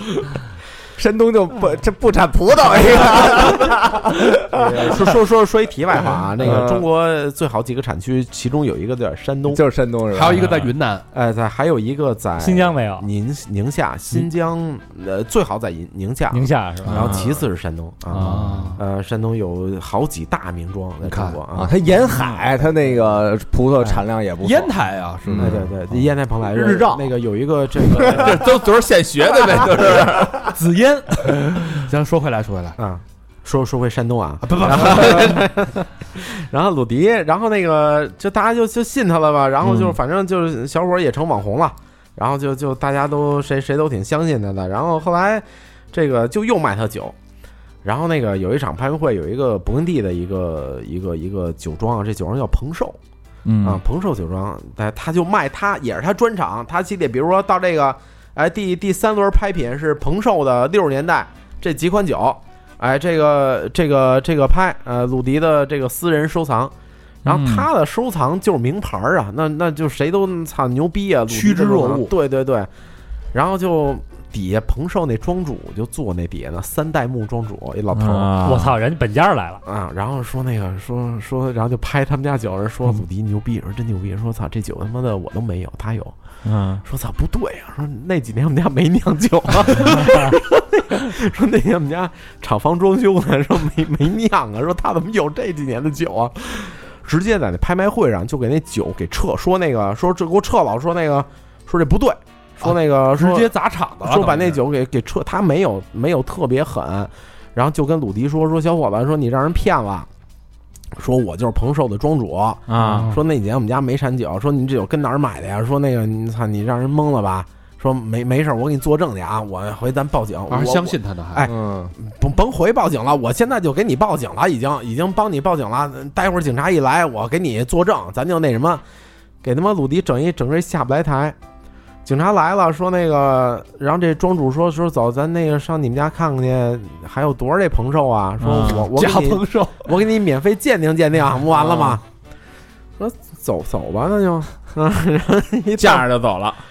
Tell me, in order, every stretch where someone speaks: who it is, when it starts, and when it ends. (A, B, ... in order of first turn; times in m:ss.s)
0:01.0-0:05.1 A
0:04.5-0:09.6 B
0:06.4-0:06.8 A
0:09.5-0:10.5 A
0:10.1-0:11.0 C
0:11.1-0:21.7 B
0:12.4-0:13.1 D
0:16.3-0:17.1 D
0:16.8-0:17.3 E
0:18.1-0:18.8 C
0:21.0-0:21.4 C
0:21.5-0:24.7 A
0:24.4-0:25.7 C
0:25.2-0:25.6 A
0:25.4-0:28.6 B
0:26.5-0:27.0 C
0:28.1-0:30.5 E
0:30.4-0:32.8 C
0:32.8-0:47.2 B
0:34.4-0:35.4 C
0:47.8-0:53.0 B
0:53.4-0:53.8 E
0:53.6-1:06.7 B
1:07.2-1:07.6 E
1:07.2-1:12.7 B
1:11.3-1:12.1 C
1:13.3-1:18.3 B
1:17.9-1:18.8 E
1:18.4-1:19.6 D
1:19.6-1:26.2 B
1:26.4-1:26.8 E
1:26.8-1:43.5 B
1:42.6-1:44.6 C
1:44.0-1:50.1 B
1:51.0-2:08.8 B
1:52.7-1:53.1 E
1:52.8-1:53.2 C
2:00.5-2:01.5 C
2:01.4-2:01.9 A
2:09.4-2:11.4 B
2:12.0-2:22.0 B
2:18.4-2:18.9 E
2:18.9-2:19.9 C
2:23.0-2:26.1 B
2:25.8-2:26.6 E